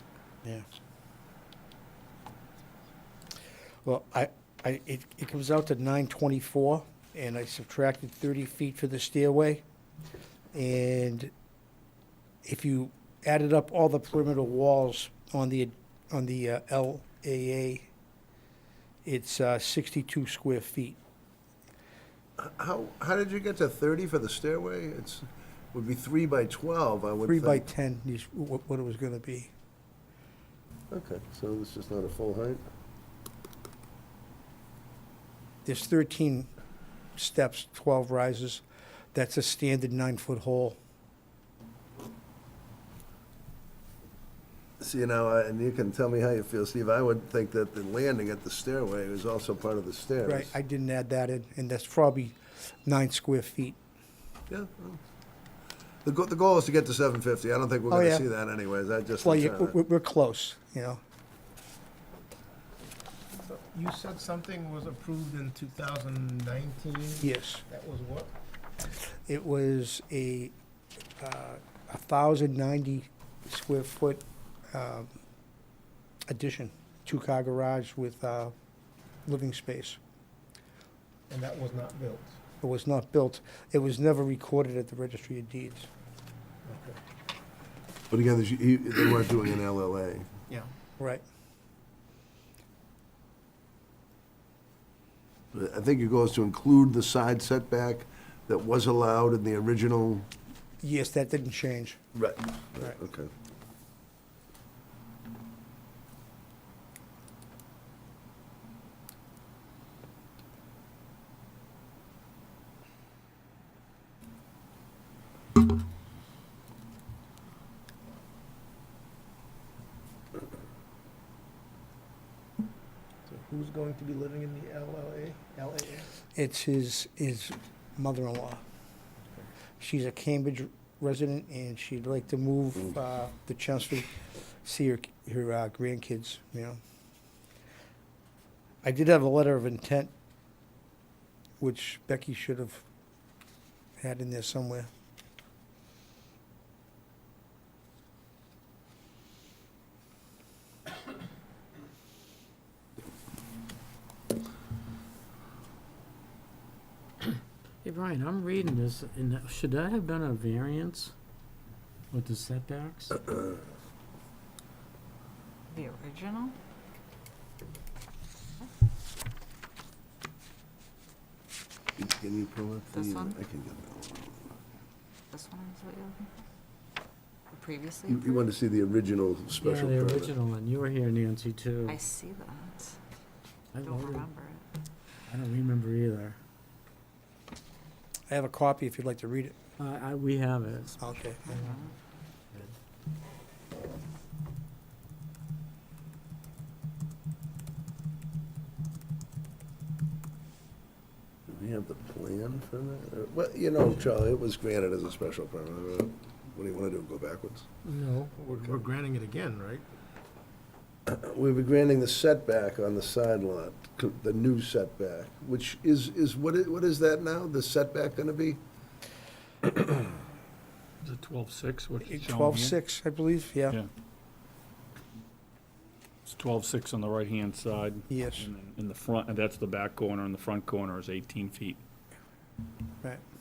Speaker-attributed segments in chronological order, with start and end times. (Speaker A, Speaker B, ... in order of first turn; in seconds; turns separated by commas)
Speaker A: 3.9-9.6, Speaker A: 10.5-11.3, Speaker A: 12.4-17.9, Speaker A: 19.0-21.0, Speaker B: 22.4-27.6, Speaker A: 27.2-29.5, Speaker B: 30.9-32.6, Speaker A: 35.6-36.5, Speaker A: 37.2-40.8, Speaker B: 44.8-50.5, Speaker A: 50.2-53.8, Speaker B: 54.5-55.0, Speaker B: 56.0-59.7, Speaker A: 57.9-58.3, Speaker A: 59.2-61.0, Speaker C: 63.4-68.4, Speaker A: 67.2-67.6, Speaker A: 69.3-70.5, Speaker A: 71.2-75.1, Speaker A: 76.3-78.5, Speaker A: 79.2-80.0, Speaker C: 81.3-82.4, Speaker A: 82.6-85.9, Speaker C: 86.6-87.0, Speaker B: 88.1-90.3, Speaker B: 95.5-100.3, Speaker A: 100.8-102.0, Speaker B: 102.1-103.3, Speaker C: 123.3-126.1, Speaker A: 126.3-128.6, Speaker A: 129.8-134.1, Speaker A: 134.6-136.8, Speaker A: 138.8-140.1, Speaker A: 141.6-142.8, Speaker A: 144.0-144.9, Speaker D: 157.8-161.1, Speaker D: 162.1-163.2, Speaker E: 165.7-166.6, Speaker B: 172.0-174.5, Speaker E: 172.9-173.4, Speaker E: 175.3-176.3, Speaker E: 177.5-178.5, Speaker B: 178.1-180.3, Speaker D: 179.6-182.0, Speaker E: 181.8-183.0, Speaker D: 183.7-184.3, Speaker E: 183.8-184.6, Speaker D: 185.3-186.4, Speaker A: 188.3-189.6, Speaker D: 189.8-191.9, Speaker A: 191.0-191.5, Speaker E: 191.4-191.9, Speaker B: 201.5-207.7, Speaker D: 207.8-208.3, Speaker C: 208.4-209.9, Speaker B: 211.1-218.6, Speaker F: 221.0-222.8, Speaker A: 222.0-223.8, Speaker F: 226.2-231.8, Speaker A: 228.1-228.5